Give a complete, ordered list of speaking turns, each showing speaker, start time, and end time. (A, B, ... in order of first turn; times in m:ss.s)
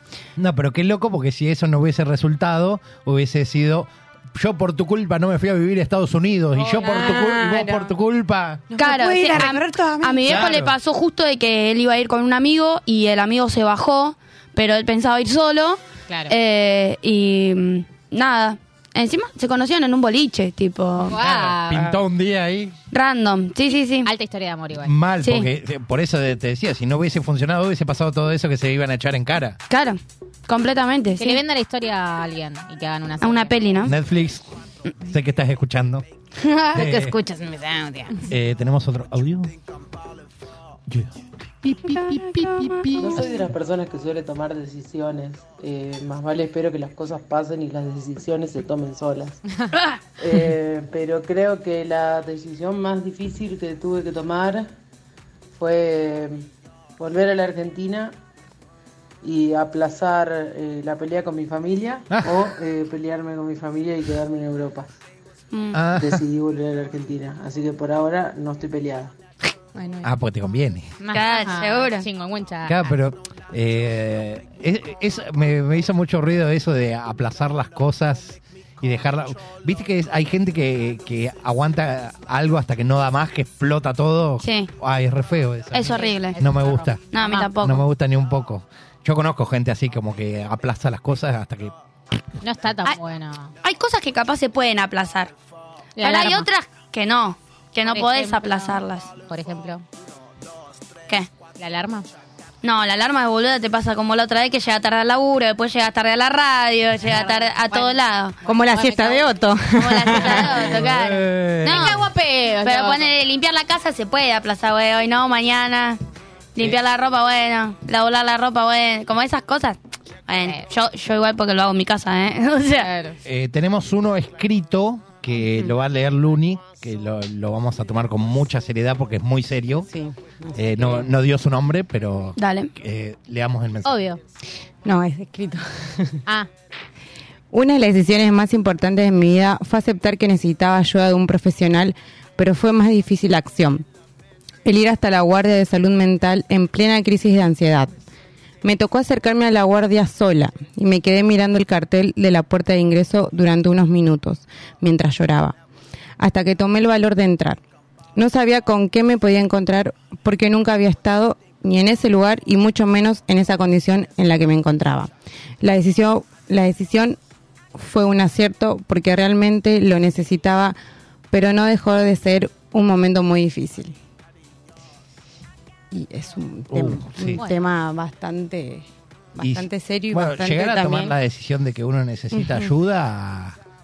0:00.4-0:08.7 A
0:06.6-0:07.9 B
0:08.7-0:10.4 B
0:08.8-0:21.2 C
0:10.2-0:10.8 A
0:16.1-0:16.3 D
0:21.0-0:22.0 D
0:21.2-0:22.8 A
0:22.9-0:24.1 C
0:24.0-0:24.9 D
0:24.8-0:29.6 A
0:25.2-0:25.5 C
0:29.7-0:31.4 C
0:31.2-0:33.9 D
0:33.2-0:34.0 C
0:33.8-0:34.5 A
0:35.0-0:36.0 A
0:36.4-0:38.3 B
0:36.7-0:37.2 A
0:38.3-0:39.5 A
0:40.9-0:43.4 A
0:43.0-0:49.4 E
0:50.2-0:54.7 E
0:55.6-0:56.5 E
0:57.0-0:58.2 E
0:59.2-1:04.9 E
1:02.1-1:02.5 A
1:05.5-1:05.9 C
1:05.7-1:06.2 A
1:06.0-1:09.1 E
1:09.8-1:10.1 B
1:10.0-1:10.9 A
1:11.0-1:13.0 D
1:11.1-1:12.1 C
1:12.7-1:27.0 A
1:24.4-1:24.7 C
1:25.7-1:26.4 C
1:25.8-1:27.5 D
1:27.1-1:27.8 C
1:27.6-1:31.7 A
1:32.4-1:33.5 D
1:33.6-1:35.3 C
1:36.0-1:36.5 D
1:36.0-1:39.1 C
1:37.9-1:39.8 D
1:41.6-1:42.1 D
1:42.6-1:48.4 C
1:47.1-1:49.4 D
1:48.4-1:50.5 B
1:49.8-1:52.1 C
1:50.0-1:50.8 D
1:50.6-1:52.0 A
1:51.7-1:53.1 D
1:52.6-1:56.0 C
1:56.6-2:02.9 C
2:02.8-2:03.2 D
2:03.2-2:09.9 A
2:09.9-2:11.1 B
2:10.5-2:14.1 A
2:12.4-2:12.7 C
2:13.8-2:14.2 D
2:14.8-2:16.2 B
2:17.5-2:23.8 B
2:24.6-2:27.9 B
2:28.6-2:35.6 B
2:36.2-2:37.6 B
2:38.2-2:47.2 B
2:47.8-2:50.8 B
2:51.3-2:54.0 B
2:55.9-3:01.1 B
2:56.7-2:57.4 A
2:57.3-2:57.6 D
2:59.4-3:03.6 A
3:02.3-3:02.7 B